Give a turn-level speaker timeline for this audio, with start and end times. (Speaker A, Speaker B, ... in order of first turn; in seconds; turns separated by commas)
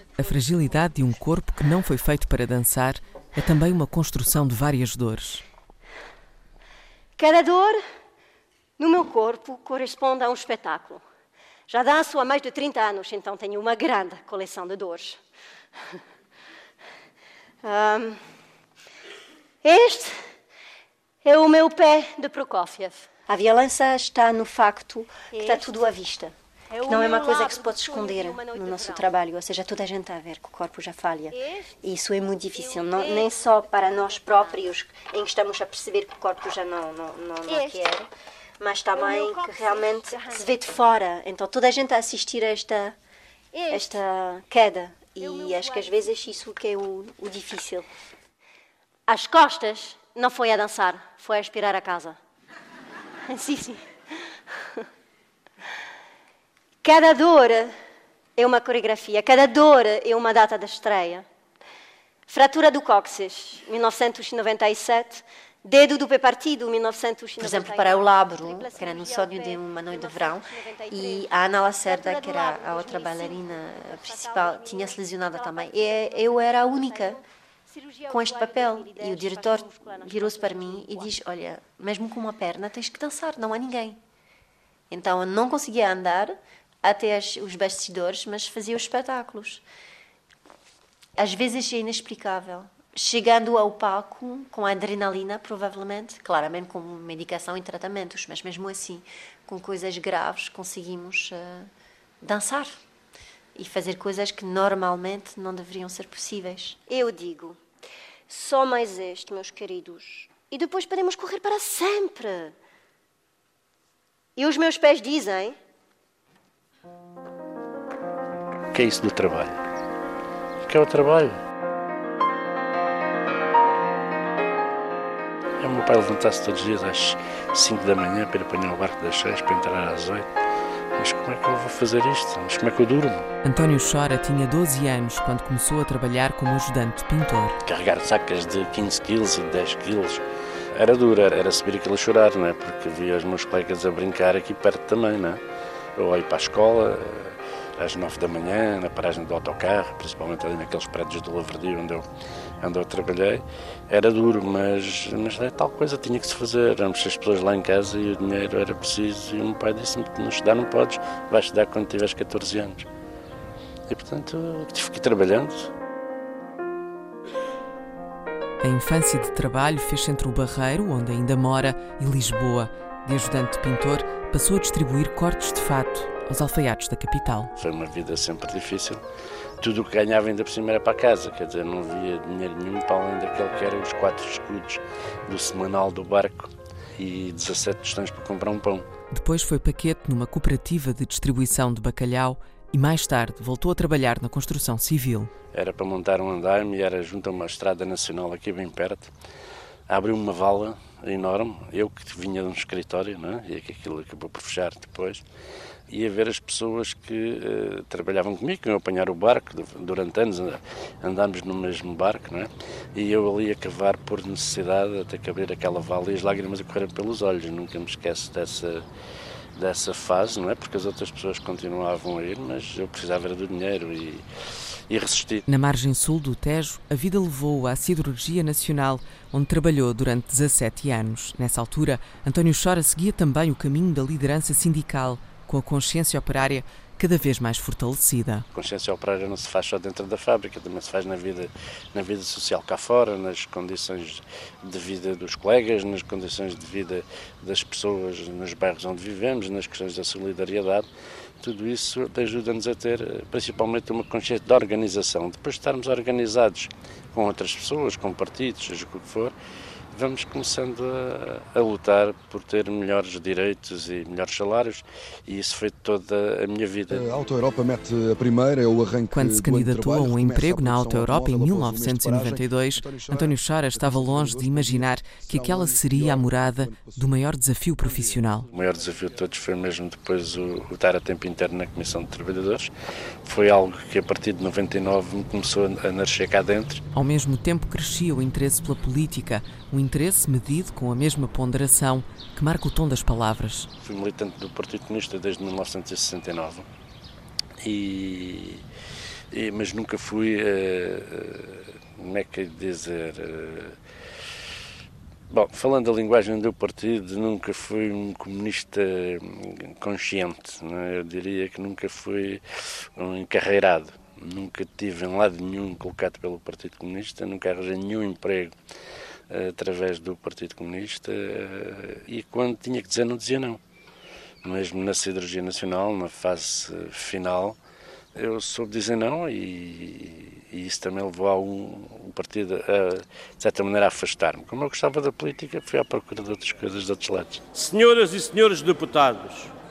Speaker A: 0.2-5.4, Speaker B: 7.2-7.8, Speaker B: 8.8-11.0, Speaker B: 11.7-15.2, Speaker B: 17.6-18.2, Speaker B: 19.6-20.2, Speaker B: 21.2-23.6, Speaker C: 23.3-26.4, Speaker B: 25.2-25.9, Speaker B: 26.7-29.1, Speaker C: 26.9-38.1, Speaker B: 31.3-31.8, Speaker B: 32.5-34.7, Speaker B: 37.5-37.9, Speaker C: 38.6-43.0, Speaker B: 38.9-40.7, Speaker B: 43.5-44.1, Speaker C: 43.7-47.9, Speaker B: 45.2-46.1, Speaker B: 49.1-52.2, Speaker B: 53.2-53.8, Speaker B: 56.8-57.7, Speaker B: 58.4-61.2, Speaker B: 62.3-71.3, Speaker C: 67.4-77.2, Speaker B: 71.8-81.2, Speaker C: 78.1-84.0, Speaker C: 84.9-89.6, Speaker C: 91.2-101.7, Speaker C: 102.2-102.8, Speaker C: 103.6-106.8, Speaker B: 106.9-107.6, Speaker B: 108.3-112.5, Speaker B: 114.4-115.6, Speaker D: 118.7-119.6, Speaker D: 120.6-121.4, Speaker D: 125.6-130.3, Speaker D: 131.0-133.3, Speaker A: 133.4-137.6, Speaker D: 137.7-145.4, Speaker D: 146.0-152.1, Speaker D: 152.6-162.9, Speaker D: 163.9-165.7, Speaker A: 168.6-177.5, Speaker D: 177.6-179.0, Speaker D: 179.6-188.9, Speaker A: 189.1-195.3, Speaker D: 195.5-199.1, Speaker D: 199.9-205.2, Speaker D: 205.9-218.8, Speaker D: 219.6-224.2, Speaker D: 224.9-225.4, Speaker A: 225.5-238.5, Speaker D: 238.5-250.9, Speaker D: 251.4-259.3, Speaker D: 259.9-267.0, Speaker E: 266.9-277.0, Speaker A: 269.1-278.5, Speaker D: 278.5-282.7, Speaker D: 283.2-286.8, Speaker A: 286.9-293.7, Speaker D: 293.8-296.6, Speaker D: 297.6-298.6, Speaker D: 299.3-303.8, Speaker D: 305.3-318.5, Speaker D: 319.3-323.6, Speaker D: 324.4-327.6, Speaker D: 328.1-337.5, Speaker F: 337.5-339.5